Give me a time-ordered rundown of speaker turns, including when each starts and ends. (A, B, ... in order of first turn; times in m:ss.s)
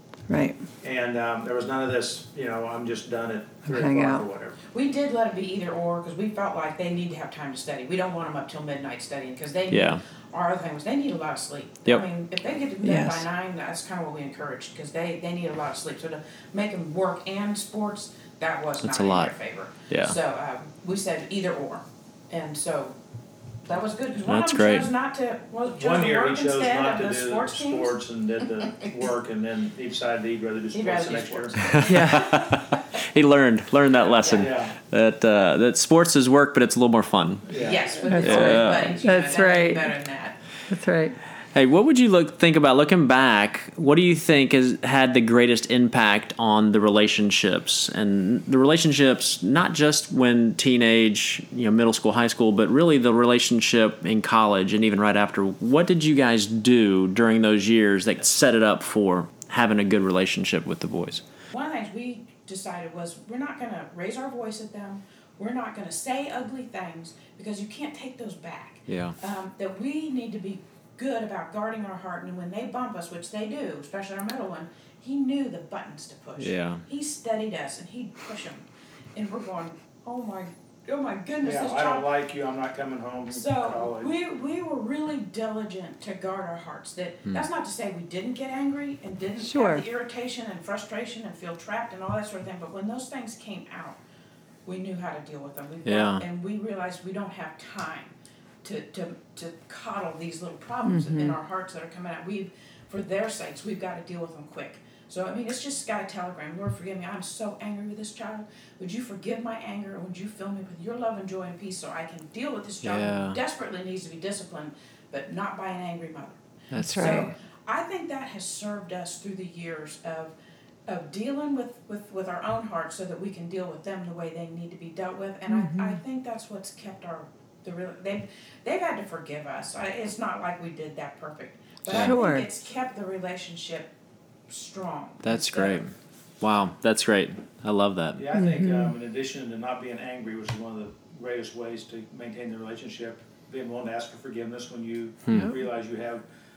0:00.3-0:00.6 A
0:00.8-0:04.6 B
0:03.7-0:04.2 A
0:04.7-0:23.0 C
0:09.7-0:10.0 D
0:12.8-0:13.3 A
0:18.8-0:19.3 D
0:19.9-0:20.2 D
0:23.6-0:27.9 C
0:24.3-0:24.9 D
0:25.7-0:31.8 B
0:30.7-0:32.8 C
0:31.6-0:37.5 D
0:34.2-0:34.5 C
0:34.3-0:34.8 B
0:37.5-0:38.0 B
0:37.5-0:40.4 C
0:38.1-0:39.9 A
0:38.2-0:39.0 D
0:40.7-0:41.2 A
0:41.5-1:01.2 D
1:01.5-1:22.1 C
1:08.9-1:09.2 D
1:16.4-1:16.8 D
1:21.4-1:24.1 B
1:23.3-1:34.0 C
1:29.4-1:29.8 A
1:34.7-2:00.3 C
1:35.9-1:36.2 D
1:40.8-1:41.4 A
1:52.8-1:53.4 D
1:56.7-1:57.2 D
1:56.8-1:57.3 A
2:00.9-2:13.9 C
2:05.5-2:06.0 A
2:11.9-2:12.1 D
2:11.9-2:12.5 A
2:14.5-2:15.8 C
2:15.2-2:18.2 D
2:18.2-2:26.2 B
2:18.3-2:18.9 A
2:25.3-2:25.5 D